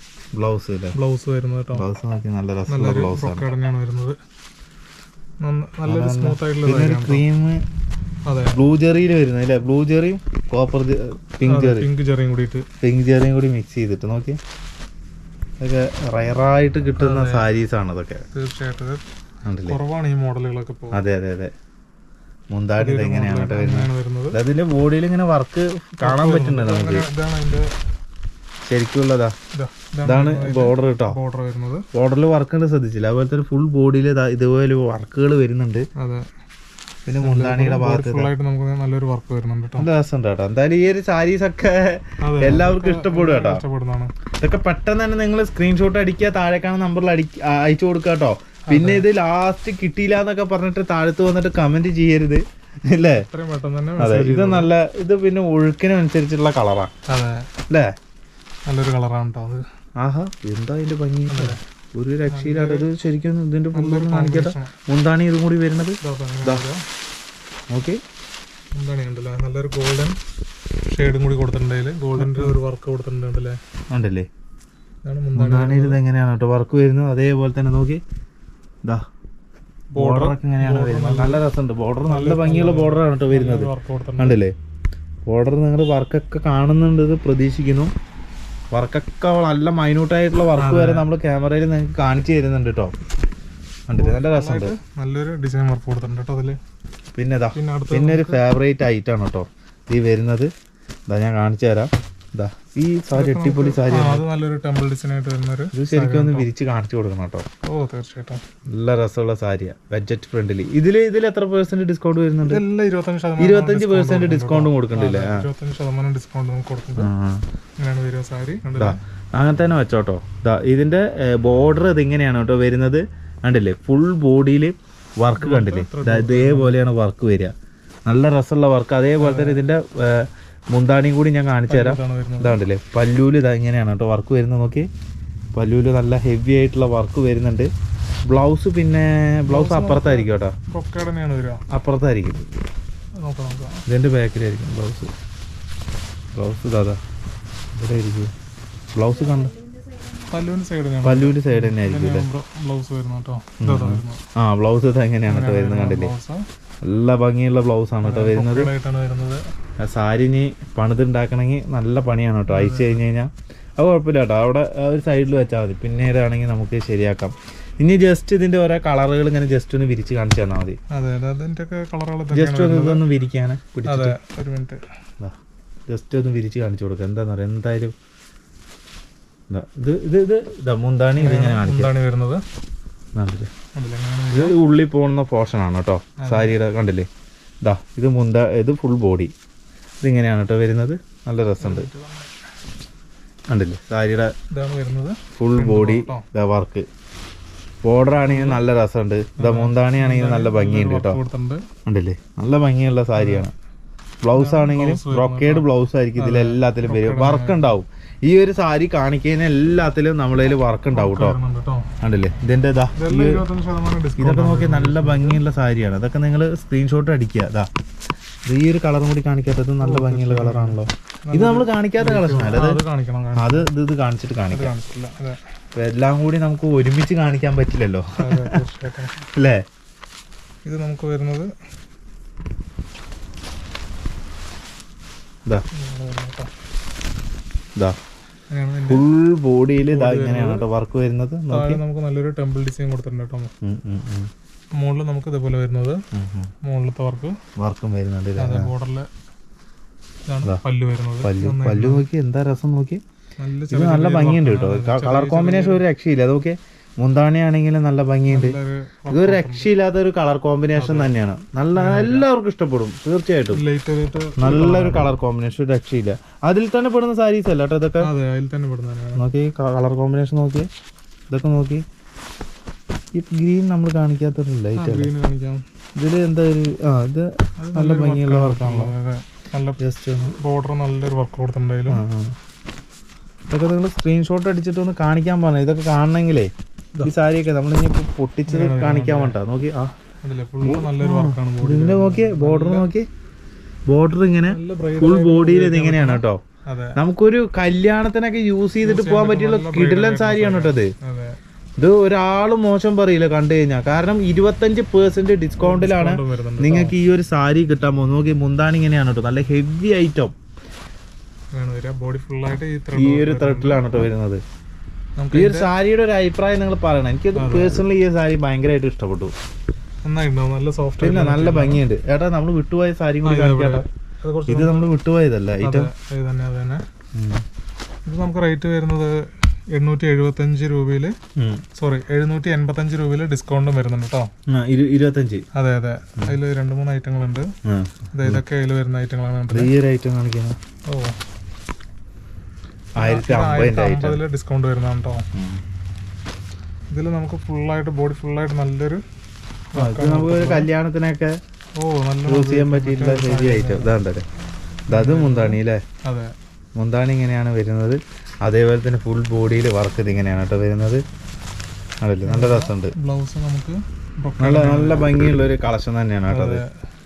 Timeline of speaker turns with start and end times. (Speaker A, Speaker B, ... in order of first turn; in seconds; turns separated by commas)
Speaker A: 0.3-1.0, Speaker B: 0.9-1.8, Speaker A: 1.7-3.5, Speaker B: 2.7-4.2, Speaker B: 5.4-7.2, Speaker A: 5.9-7.6, Speaker B: 8.2-8.6, Speaker A: 8.6-11.9, Speaker B: 11.4-12.7, Speaker A: 12.8-14.4, Speaker A: 15.6-18.2, Speaker B: 17.0-17.5, Speaker B: 18.3-19.0, Speaker A: 19.4-19.8, Speaker B: 19.7-21.0, Speaker A: 20.9-21.5, Speaker A: 22.5-27.1, Speaker B: 22.8-24.4, Speaker B: 26.0-27.8, Speaker A: 28.7-29.4, Speaker B: 29.5-31.9, Speaker A: 30.1-31.2, Speaker A: 31.9-35.9, Speaker B: 36.0-36.3, Speaker A: 37.1-38.3, Speaker B: 37.2-39.9, Speaker A: 39.8-43.6, Speaker B: 42.2-44.1, Speaker A: 44.4-53.2, Speaker B: 48.7-49.1, Speaker B: 53.2-54.7, Speaker A: 54.0-56.9, Speaker B: 57.1-57.5, Speaker B: 58.7-59.6, Speaker A: 60.0-66.6, Speaker B: 61.3-61.6, Speaker B: 62.3-62.9, Speaker B: 63.7-64.8, Speaker B: 66.0-66.9, Speaker A: 67.7-68.0, Speaker B: 68.7-70.2, Speaker B: 70.9-73.6, Speaker A: 72.2-72.5, Speaker A: 73.9-74.2, Speaker B: 75.0-76.0, Speaker A: 75.4-78.0, Speaker B: 80.0-81.4, Speaker A: 80.0-84.5, Speaker B: 82.1-84.4, Speaker A: 85.3-87.9, Speaker A: 88.7-93.0, Speaker B: 90.6-91.1, Speaker A: 93.9-94.8, Speaker B: 93.9-96.6, Speaker A: 97.2-100.5, Speaker B: 97.5-98.4, Speaker A: 101.1-104.2, Speaker B: 103.1-106.5, Speaker A: 105.7-107.5, Speaker B: 107.7-108.4, Speaker A: 108.7-112.6, Speaker B: 112.5-117.1, Speaker A: 113.4-115.5, Speaker A: 117.0-117.4, Speaker B: 117.8-119.0, Speaker A: 118.8-127.5, Speaker B: 125.4-126.8, Speaker A: 128.1-134.9, Speaker B: 129.2-129.6, Speaker B: 131.7-132.6, Speaker A: 135.5-137.7, Speaker A: 138.3-140.6, Speaker B: 139.5-141.6, Speaker A: 141.7-142.5, Speaker B: 143.2-143.8, Speaker A: 143.9-145.1, Speaker A: 146.3-147.0, Speaker A: 147.8-148.3, Speaker A: 148.9-149.6, Speaker B: 150.2-154.2, Speaker A: 151.0-152.3, Speaker A: 153.6-156.1, Speaker B: 155.3-156.5, Speaker A: 156.8-158.7, Speaker B: 158.0-159.4, Speaker A: 159.8-170.8, Speaker B: 162.5-163.0, Speaker B: 170.9-173.0, Speaker A: 172.3-174.2, Speaker B: 173.9-174.8, Speaker A: 175.9-177.9, Speaker A: 179.5-181.9, Speaker B: 181.2-182.4, Speaker A: 183.2-183.5, Speaker B: 183.7-184.6, Speaker A: 184.3-187.1, Speaker B: 186.2-186.6, Speaker A: 187.6-189.3, Speaker A: 190.0-191.9, Speaker B: 191.6-192.3, Speaker A: 193.5-194.3, Speaker B: 194.5-196.2, Speaker A: 195.4-196.9, Speaker A: 197.8-201.2, Speaker B: 198.2-198.6, Speaker B: 199.4-201.7, Speaker A: 201.9-203.5, Speaker B: 203.2-203.5, Speaker A: 204.2-211.4, Speaker B: 204.4-207.8, Speaker B: 210.9-211.9, Speaker A: 212.0-213.4, Speaker B: 213.0-215.4, Speaker A: 214.2-217.7, Speaker A: 218.5-222.8, Speaker B: 219.8-223.7, Speaker A: 223.4-224.7, Speaker B: 224.5-225.4, Speaker A: 225.8-228.6, Speaker B: 228.2-229.2, Speaker A: 229.2-229.6, Speaker B: 230.6-231.5, Speaker B: 235.7-236.5, Speaker B: 238.5-239.0, Speaker A: 238.8-241.8, Speaker B: 239.8-240.7, Speaker B: 241.5-243.5, Speaker A: 243.6-244.3, Speaker B: 244.8-246.0, Speaker A: 246.1-246.5, Speaker B: 246.6-247.4, Speaker A: 247.6-248.7, Speaker B: 248.4-249.1, Speaker B: 250.3-252.0, Speaker A: 251.2-253.0, Speaker B: 253.4-255.8, Speaker A: 253.7-258.6, Speaker B: 258.3-259.7, Speaker A: 259.1-263.6, Speaker B: 260.8-261.1, Speaker B: 261.8-262.3, Speaker B: 263.5-265.1, Speaker A: 264.4-268.1, Speaker B: 268.0-269.2, Speaker A: 269.2-270.7, Speaker A: 271.3-271.8, Speaker A: 273.1-275.1, Speaker B: 274.8-275.6, Speaker A: 276.0-278.9, Speaker B: 277.6-279.8, Speaker A: 279.8-280.4, Speaker B: 280.4-282.0, Speaker A: 281.9-282.4, Speaker A: 283.5-289.9, Speaker B: 288.5-289.4, Speaker B: 290.2-292.9, Speaker A: 290.6-293.1, Speaker A: 293.9-296.4, Speaker B: 294.5-297.0, Speaker A: 297.0-300.9, Speaker B: 298.8-301.4, Speaker A: 301.8-310.3, Speaker B: 305.6-306.9, Speaker B: 311.5-314.1, Speaker A: 312.9-314.4, Speaker B: 315.2-315.7, Speaker A: 315.3-319.3, Speaker B: 317.4-317.8, Speaker B: 320.0-321.8, Speaker A: 321.0-323.9, Speaker B: 323.2-324.9, Speaker A: 324.5-325.9, Speaker B: 325.6-326.9, Speaker A: 327.1-327.4, Speaker B: 328.0-331.2, Speaker A: 331.4-331.6, Speaker B: 331.8-334.3, Speaker A: 334.5-335.4, Speaker B: 335.5-337.5, Speaker A: 337.6-338.4, Speaker B: 338.1-339.7, Speaker A: 339.5-340.6, Speaker B: 340.9-341.2, Speaker A: 343.0-344.2, Speaker B: 343.0-345.2, Speaker A: 345.3-345.6, Speaker B: 346.9-349.0, Speaker B: 349.7-350.7, Speaker A: 349.8-351.4, Speaker B: 351.8-353.9, Speaker A: 352.2-354.2, Speaker A: 354.9-355.8, Speaker B: 354.9-356.3, Speaker A: 356.8-361.0, Speaker A: 362.0-362.9, Speaker B: 362.2-365.2, Speaker A: 364.4-366.6, Speaker B: 366.3-366.7